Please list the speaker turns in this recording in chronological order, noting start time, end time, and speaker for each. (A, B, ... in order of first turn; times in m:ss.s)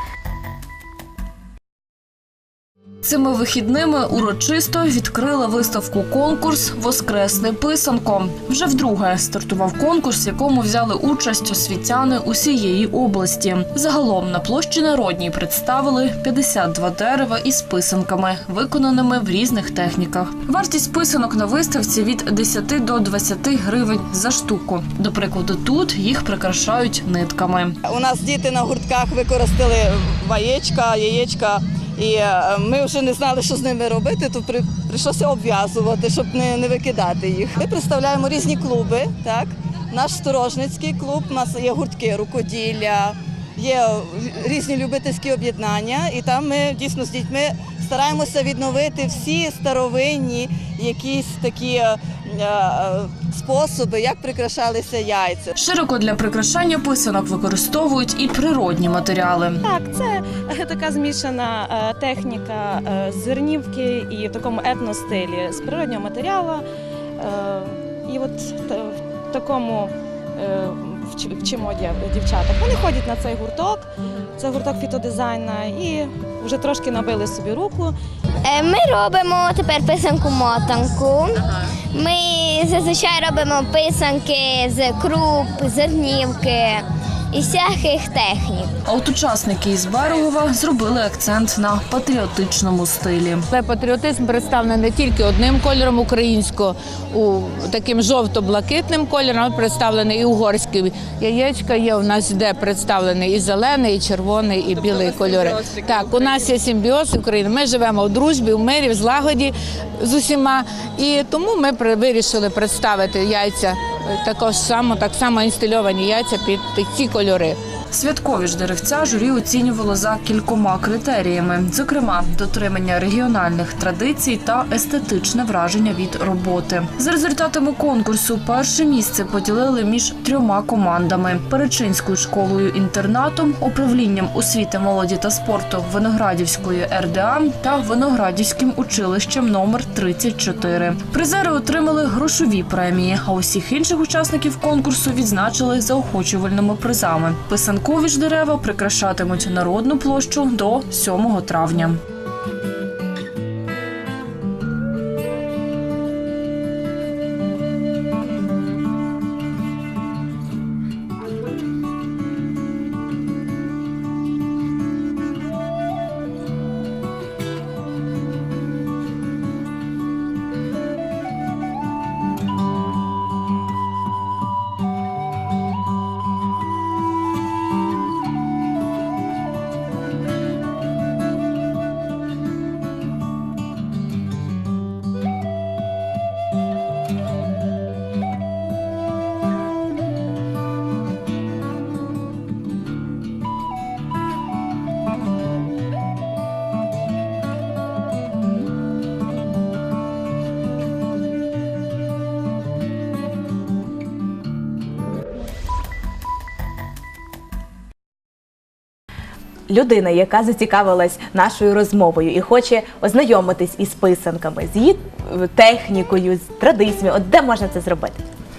0:03.0-0:27.8 A
0:27.8-0:55.5 B
0:55.6-0:59.6 A
0:59.6-1:06.6 C
1:07.2-1:17.9 C
1:18.4-1:28.7 D
1:28.8-1:33.5 A
1:33.5-1:57.6 E
1:57.9-2:32.0 A
3:29.7-3:38.2 F